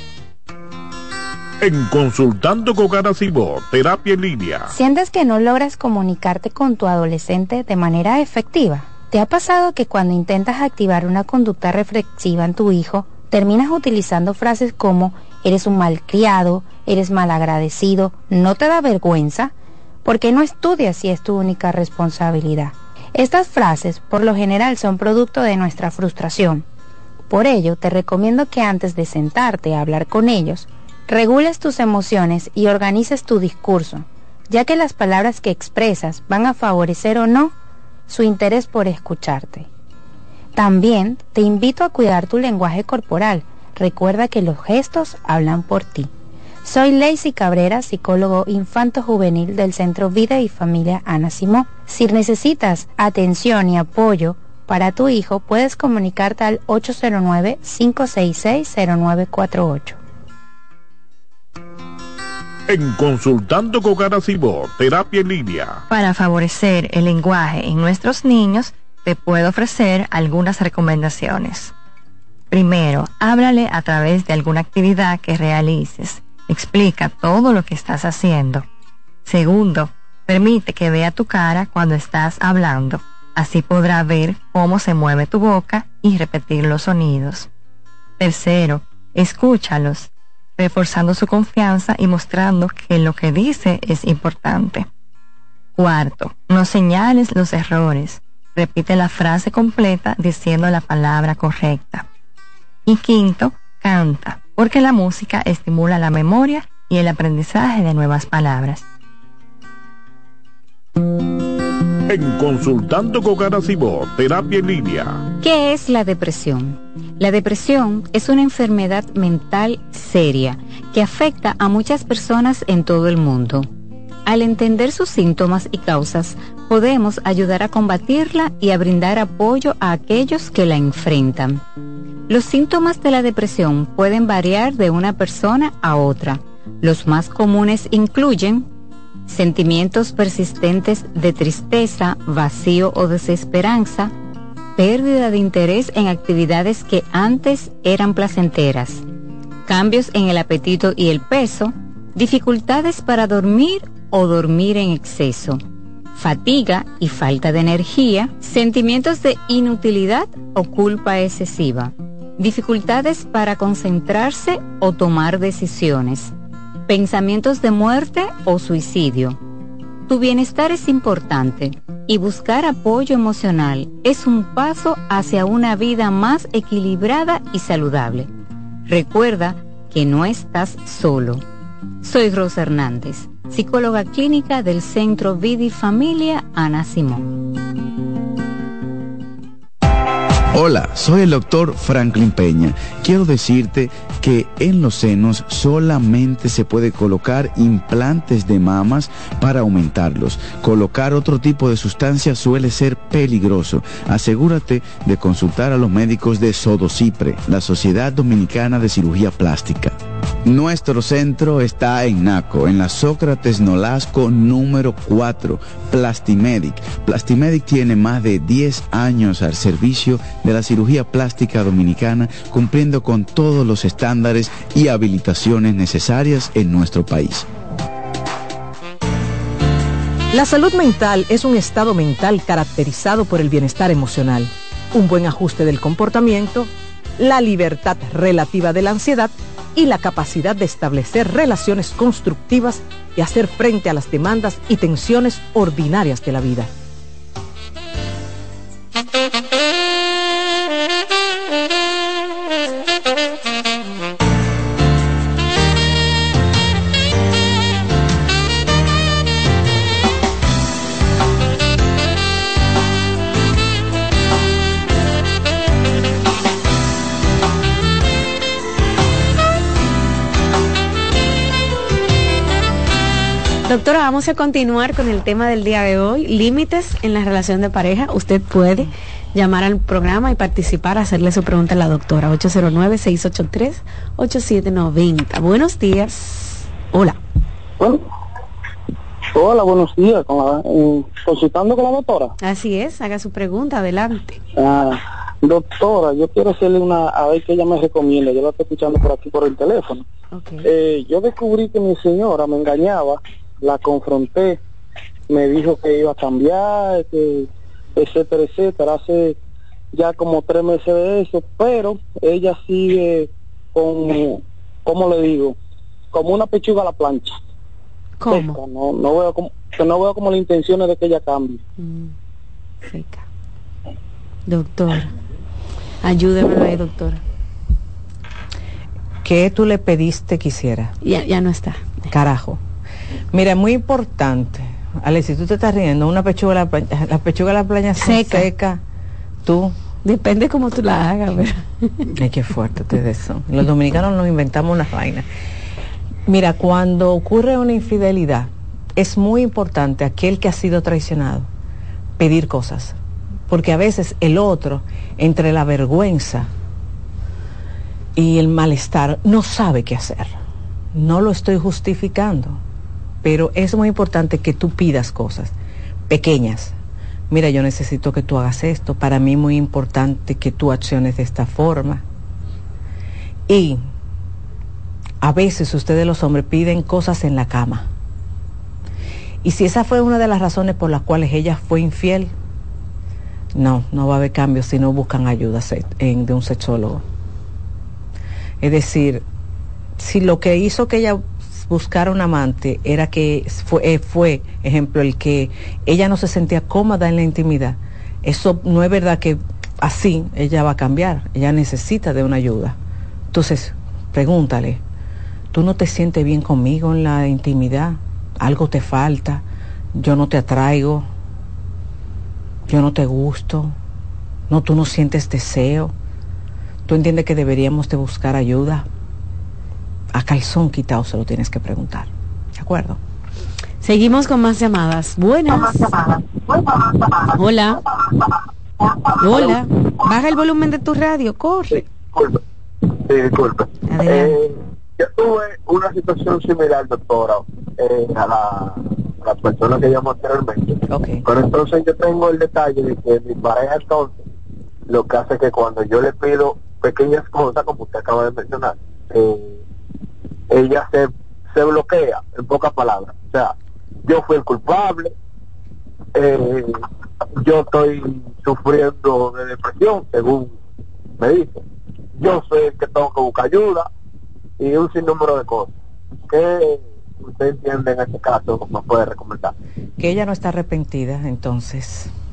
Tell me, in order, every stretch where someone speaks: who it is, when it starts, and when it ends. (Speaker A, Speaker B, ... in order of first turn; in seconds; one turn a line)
Speaker A: 1.6-4.7
Speaker B: 4.7-19.5
Speaker B: 20.1-26.6
Speaker B: 27.3-37.5
Speaker B: 38.1-39.7
Speaker B: 40.5-46.1
Speaker B: 46.6-60.0
Speaker A: 62.7-65.8
Speaker C: 65.9-71.7
Speaker C: 72.5-78.7
Speaker C: 79.3-87.5
Speaker C: 88.2-94.9
Speaker C: 95.8-102.1
Speaker C: 102.9-108.8
Speaker A: 112.1-115.3
Speaker D: 115.4-123.7
Speaker D: 124.3-131.6
Speaker D: 132.3-138.7
Speaker D: 139.3-144.1
Speaker D: 144.8-149.0
Speaker D: 149.7-155.6
Speaker D: 156.2-166.3
Speaker D: 166.9-169.4
Speaker D: 170.1-178.3
Speaker D: 178.9-181.4
Speaker D: 182.0-187.3
Speaker E: 190.5-227.5
Speaker F: 230.3-246.7
Speaker G: 273.7-287.2
Speaker H: 289.3-292.3
Speaker G: 292.4-294.4
Speaker H: 294.6-300.1
Speaker G: 300.3-300.6
Speaker H: 300.6-304.6
Speaker H: 305.3-309.4
Speaker H: 309.9-315.6
Speaker H: 316.1-317.4
Speaker G: 318.2-318.6
Speaker H: 318.3-321.6
Speaker G: 321.8-322.1
Speaker G: 322.8-323.2
Speaker G: 324.5-325.1
Speaker G: 326.0-327.2
Speaker F: 329.2-330.9
Speaker G: 331.0-332.1
Speaker F: 332.1-332.6
Speaker F: 333.3-338.8
Speaker G: 338.0-338.5
Speaker F: 339.4-339.8
Speaker G: 340.0-342.1
Speaker F: 342.2-345.2
Speaker F: 346.3-351.5
Speaker F: 352.2-353.0
Speaker F: 353.5-356.5
Speaker F: 358.2-360.4
Speaker F: 360.9-362.6
Speaker F: 363.2-365.5
Speaker F: 366.1-366.8
Speaker F: 367.3-372.0
Speaker F: 373.5-373.8
Speaker F: 375.2-377.9
Speaker F: 379.4-382.3
Speaker F: 383.5-387.0
Speaker F: 388.6-389.2
Speaker F: 390.0-402.8
Speaker F: 403.3-404.8
Speaker F: 405.5-409.4
Speaker F: 409.9-411.1
Speaker F: 412.7-413.8
Speaker F: 414.5-415.9
Speaker F: 416.9-418.9
Speaker F: 420.1-423.0
Speaker G: 423.8-425.9
Speaker I: 425.8-427.4
Speaker G: 427.4-427.8
Speaker I: 428.8-429.6
Speaker G: 429.2-431.9
Speaker I: 432.1-432.4
Speaker I: 432.9-444.1
Speaker G: 433.9-434.4
Speaker F: 440.9-441.2
Speaker I: 444.9-449.6
Speaker I: 450.5-453.5
Speaker I: 454.1-455.1
Speaker I: 456.2-456.8
Speaker I: 457.4-460.6
Speaker I: 461.2-461.6
Speaker I: 462.2-463.9
Speaker I: 464.6-465.7
Speaker I: 466.3-469.5
Speaker F: 470.0-472.1